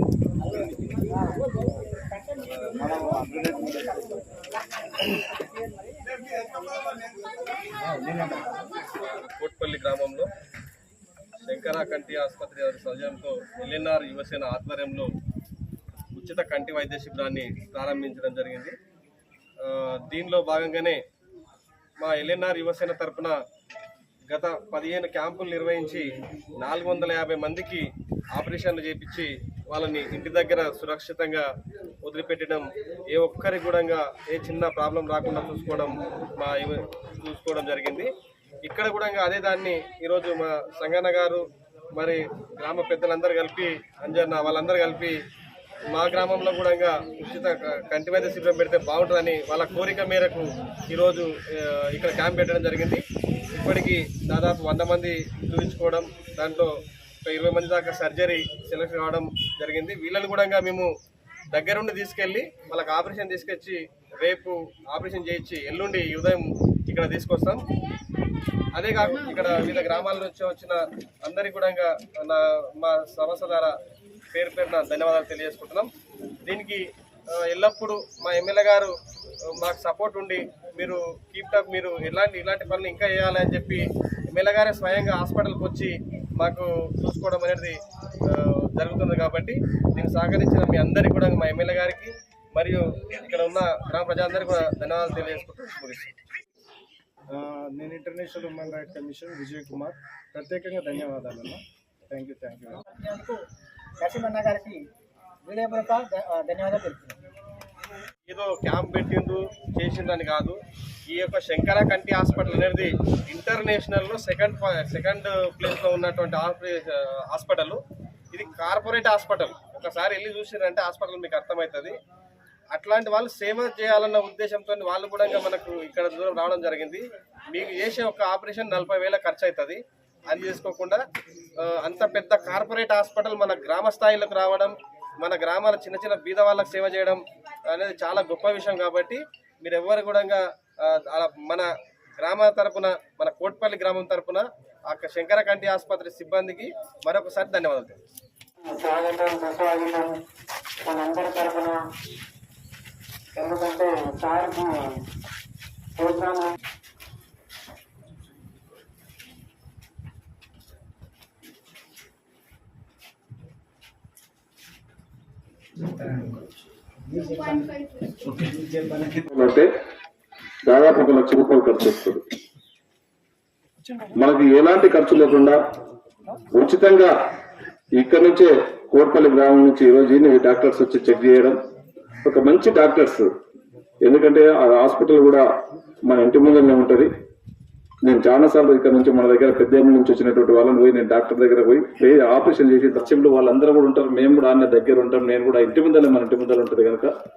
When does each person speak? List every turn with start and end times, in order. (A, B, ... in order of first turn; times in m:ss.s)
0:00.5-0:00.7 A
0:02.7-0:04.2 A
0:07.8-0:08.6 A
0:09.0-0:10.3 B
0:11.4-0:15.1 B
0:16.1-0:18.7 B
0:19.6-0:21.0 B
0:22.0-0:23.4 B
0:24.3-0:26.0 B
0:26.6-0:31.4 B
0:32.0-0:38.1 B
0:38.6-0:41.4 B
0:42.0-0:45.2 B
0:45.9-0:53.0 B
0:53.5-0:56.7 B
0:57.2-1:00.9 B
1:01.5-1:07.6 B
1:08.8-1:13.7 B
1:14.3-1:15.9 B
1:16.4-1:16.8 B
1:17.4-1:18.9 B
1:19.5-1:27.8 B
1:28.3-1:36.2 B
1:37.3-1:42.8 C
1:42.8-1:43.4 A
1:44.0-1:44.8 A
1:45.4-1:47.2 A
1:48.3-1:50.6 B
1:51.1-1:57.8 B
1:58.3-2:01.9 B
2:02.7-2:11.0 B
2:11.6-2:21.7 B
2:22.2-2:28.0 B
2:28.6-2:30.1 D
2:30.8-2:31.8 D
2:33.4-2:34.9 D
2:36.0-2:36.5 D
2:48.6-2:48.9 A
2:49.1-2:49.7 E
2:50.6-2:52.2 E
2:54.1-2:55.6 E
2:56.5-2:57.1 E
2:58.0-3:01.6 E
3:02.2-3:03.3 E
3:04.0-3:05.4 E
3:06.0-3:07.1 E
3:08.0-3:17.1 E